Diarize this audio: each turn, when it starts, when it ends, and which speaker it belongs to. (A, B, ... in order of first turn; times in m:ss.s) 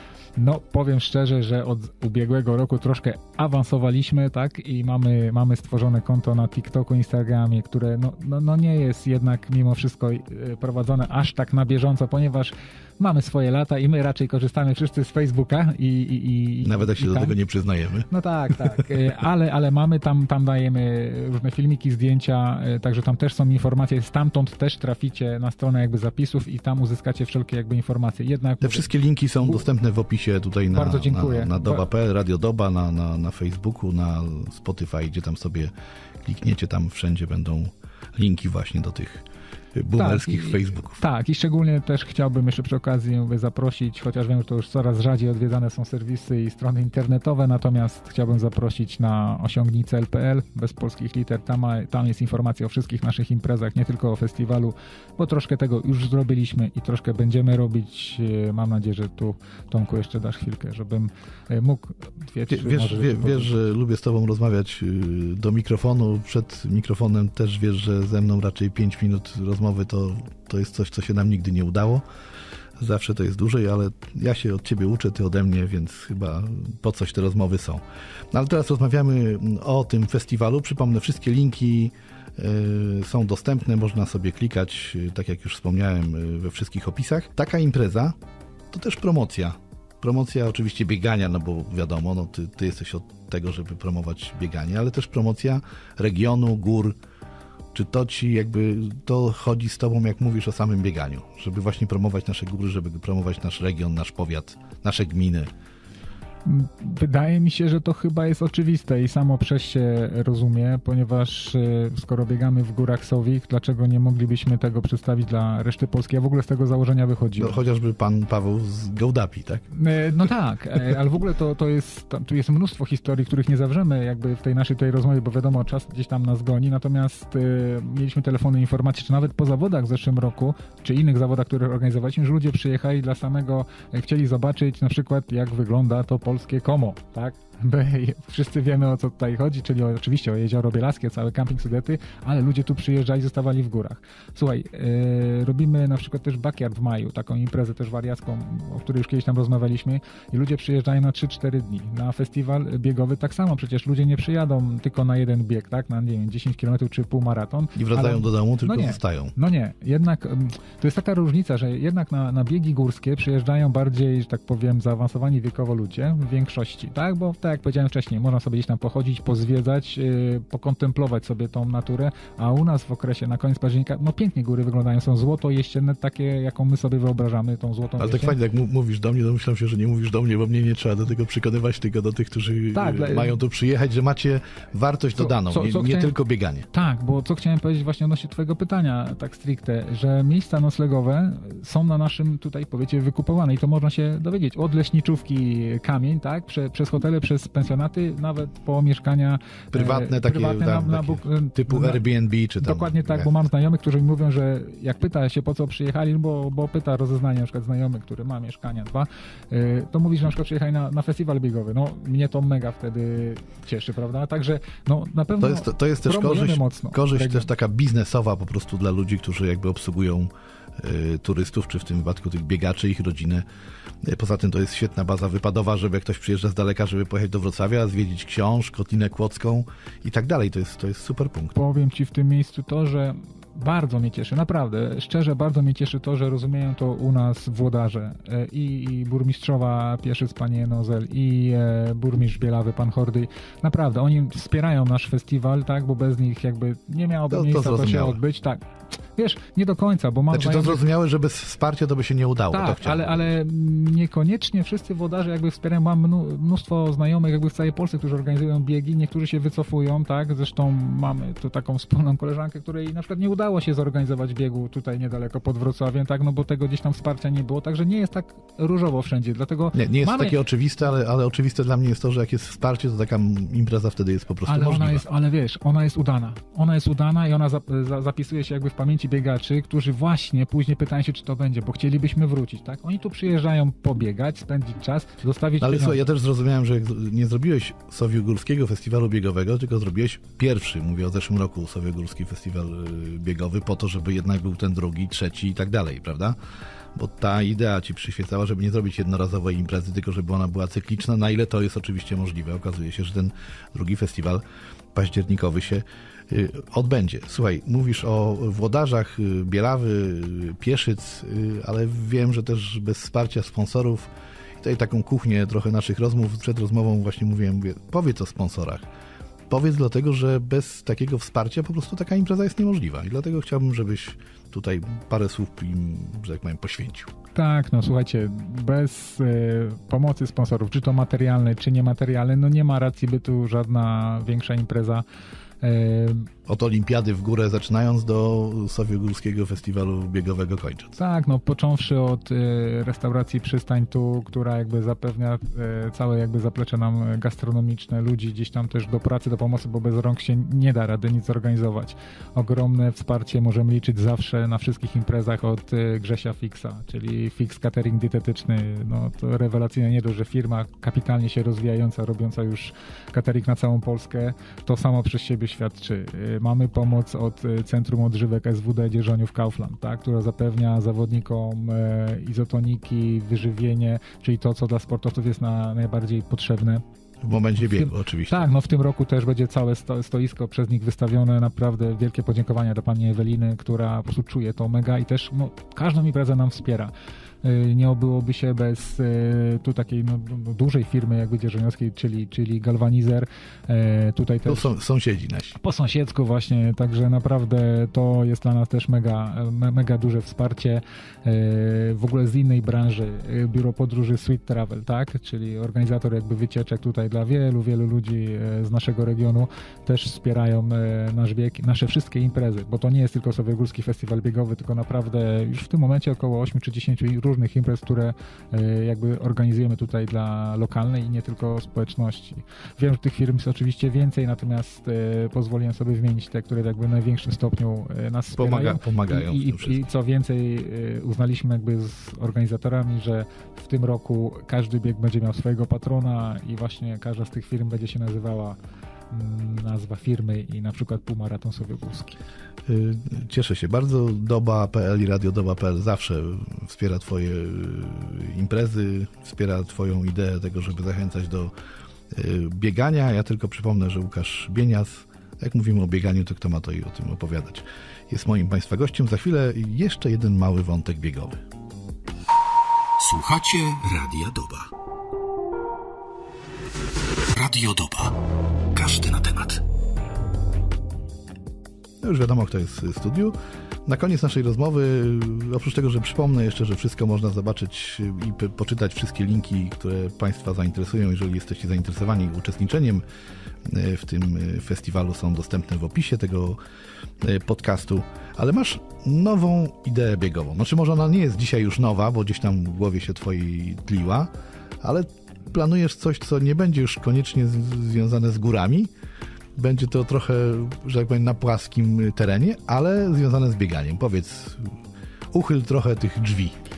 0:00.4-0:17.4 A
0:16.6-0:18.1 B
0:18.1-0:28.9 A
0:28.6-0:35.7 B
0:30.7-0:31.8 A
0:36.2-0:41.0 B
0:40.0-1:03.5 A
1:02.5-1:12.0 B
1:12.8-1:28.2 B
1:28.7-1:37.0 B
1:37.7-1:45.5 B
1:46.4-1:57.6 A
1:57.4-1:59.6 B
1:59.7-2:58.4 A
2:37.7-2:39.3 B
2:58.0-3:06.7 B
3:02.7-3:03.4 A
3:05.2-3:06.1 A
3:06.7-3:22.0 A
3:19.7-3:23.3 B
3:22.6-3:37.5 A
3:35.4-3:43.4 B
3:44.0-3:51.6 B
3:51.5-4:08.6 A
4:07.3-4:08.2 B
4:09.1-4:10.8 A
4:10.3-4:13.3 B
4:12.5-4:30.4 A
4:29.7-4:35.0 B
4:34.5-4:46.0 A
4:45.6-4:56.4 B
4:56.9-5:04.4 B
5:04.9-5:18.8 B
5:19.5-5:27.1 B
5:27.3-5:35.0 A
5:35.6-5:36.3 A
5:36.5-5:41.0 B
5:41.0-6:16.8 A
6:17.2-6:18.5 B
6:17.6-6:34.7 A
6:34.4-6:35.6 B
6:35.6-7:18.6 A
7:08.4-7:09.8 B
7:19.1-7:22.2 A
7:22.7-7:31.5 B
7:32.1-7:41.4 B
7:43.0-7:44.7 C
7:47.3-7:48.1 C
7:48.7-7:49.6 C
7:52.0-8:03.0 B
8:03.6-8:06.6 B
8:07.2-8:14.3 B
8:14.8-8:18.9 B
8:19.6-8:24.8 B
8:25.3-8:26.6 B